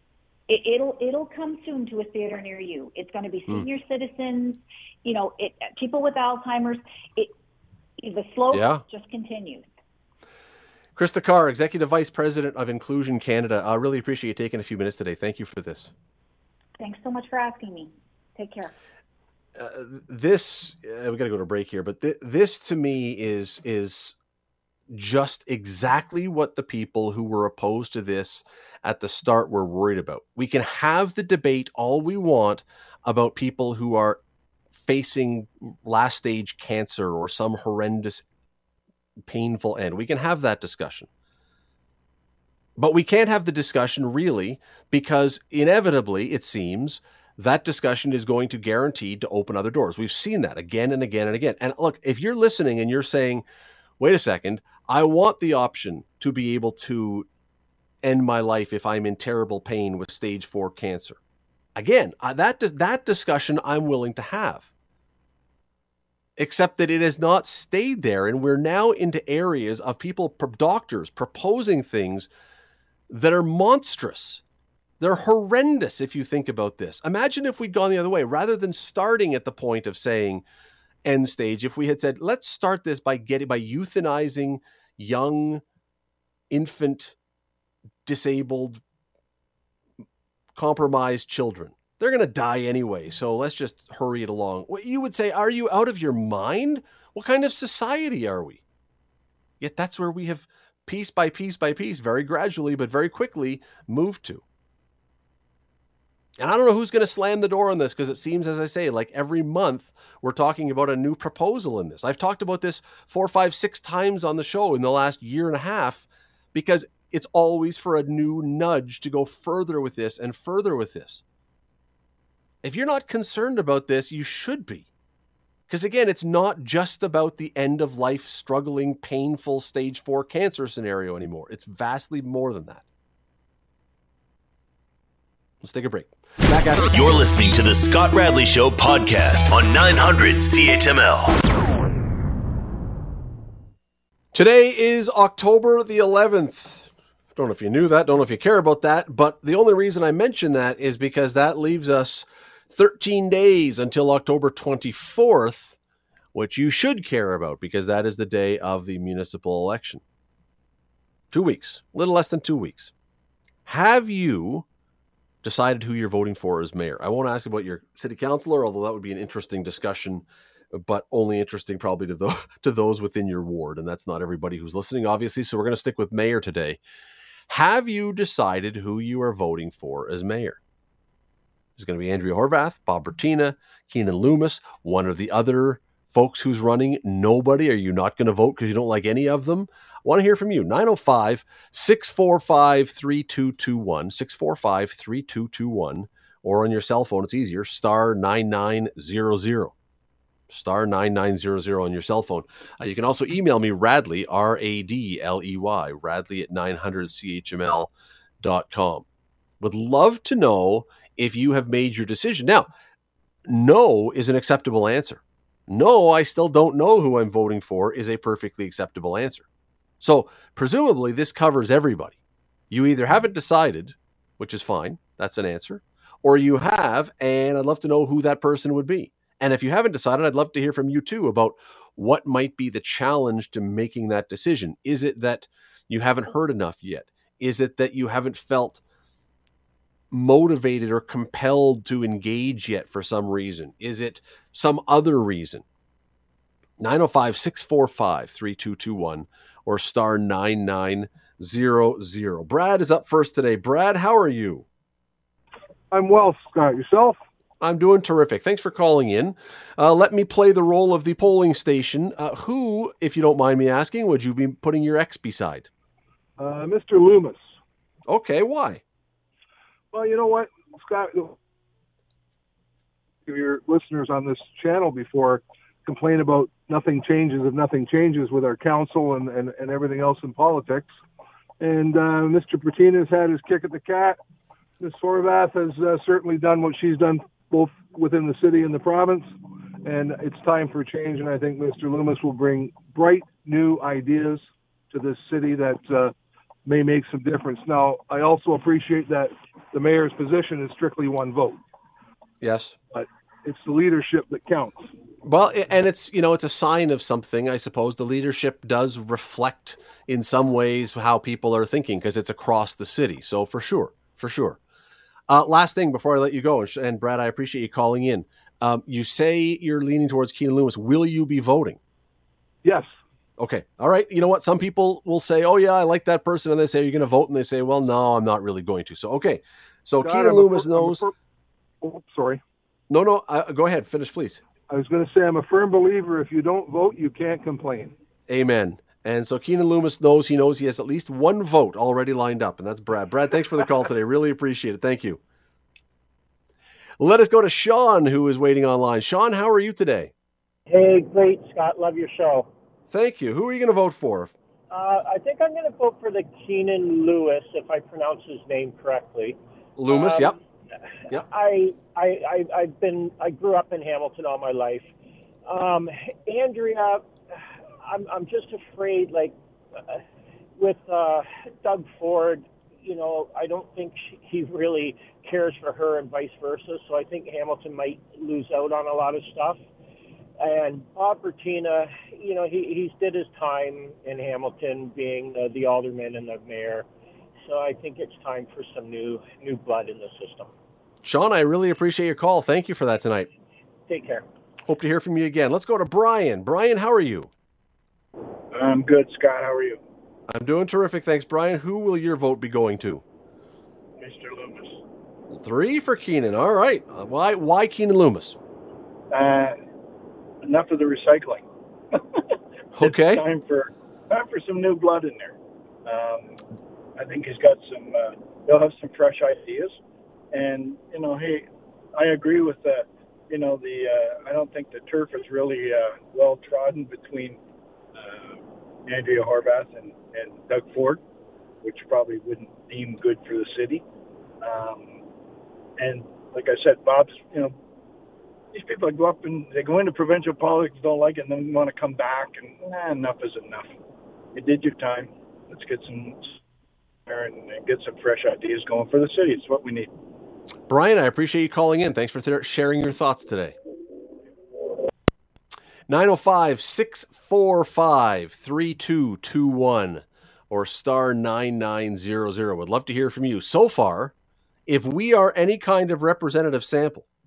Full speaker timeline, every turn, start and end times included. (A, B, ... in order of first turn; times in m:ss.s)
0:00.5-0:07.3 A
0:08.0-0:09.7 A
0:08.5-0:08.8 B
0:10.9-0:15.9 B
0:16.8-0:18.7 A
0:19.6-0:24.2 B
0:24.9-0:34.2 B
0:34.7-0:38.2 B
0:39.3-0:41.1 B
0:42.8-0:53.4 B
0:54.0-0:57.3 B
0:58.0-1:01.2 B
1:01.8-1:04.7 B
1:06.4-1:12.3 B
1:13.1-1:14.4 B
1:15.0-1:20.4 B
1:21.0-1:25.6 B
1:26.5-1:27.1 B
1:28.0-1:28.8 B
1:30.5-1:38.6 B
1:39.6-1:44.4 B
1:46.4-2:01.2 B
2:02.6-2:04.9 B
2:05.7-2:12.8 B
2:15.6-2:16.9 B
2:16.9-2:21.3 C
2:24.3-2:35.8 B
2:36.3-2:40.0 B
2:41.3-2:42.9 B
2:43.6-2:44.6 B
2:45.4-2:56.8 B
2:57.5-3:00.6 B
3:01.8-3:19.7 B
3:20.5-3:29.0 B
3:29.6-3:32.7 B
3:33.5-3:39.4 B
3:40.0-3:42.2 B
3:42.7-3:58.8 B
4:00.1-4:05.6 B
4:06.8-4:14.6 B
4:15.9-4:17.2 D
4:17.6-4:25.7 B
4:26.4-4:27.5 D
4:28.1-4:28.8 B
4:29.9-4:31.4 D
4:33.2-4:40.9 D
4:41.6-4:44.2 D
4:44.8-4:56.1 D
4:56.6-5:01.6 D
5:02.4-5:02.8 B
5:02.9-5:04.9 D
5:05.2-5:14.6 B
5:15.3-5:21.8 B
5:22.6-5:22.9 D
5:23.4-5:31.0 B
5:30.0-5:31.1 D
5:31.8-5:32.4 D
5:32.9-5:34.4 B
5:34.7-5:37.9 D
5:38.3-5:45.2 B
5:47.0-5:50.1 B
5:50.7-5:52.5 E
5:52.9-5:54.3 B
5:54.7-6:00.4 E
5:59.8-6:00.4 B
6:01.1-6:04.9 E
6:05.4-6:10.0 E
6:10.6-6:19.6 E
6:20.4-6:26.9 E
6:27.4-6:30.5 E
6:31.0-6:33.3 B
6:33.9-6:34.2 E
6:34.7-6:37.3 B
6:38.5-6:39.8 F
6:40.3-6:43.0 B
6:44.0-6:44.8 F
6:45.3-6:48.4 B
6:49.1-6:49.6 F
6:50.4-6:52.2 F
6:52.8-6:53.2 B
6:52.8-6:56.4 F
6:57.0-6:59.8 F
7:00.3-7:07.4 F
7:08.0-7:11.0 F
7:11.6-7:13.8 F
7:14.4-7:15.0 F
7:15.8-7:17.6 F
7:18.5-7:23.7 F
7:24.3-7:26.4 F
7:27.0-7:29.9 F
7:30.7-7:33.6 B
7:35.9-7:44.1 B
7:44.7-7:47.0 B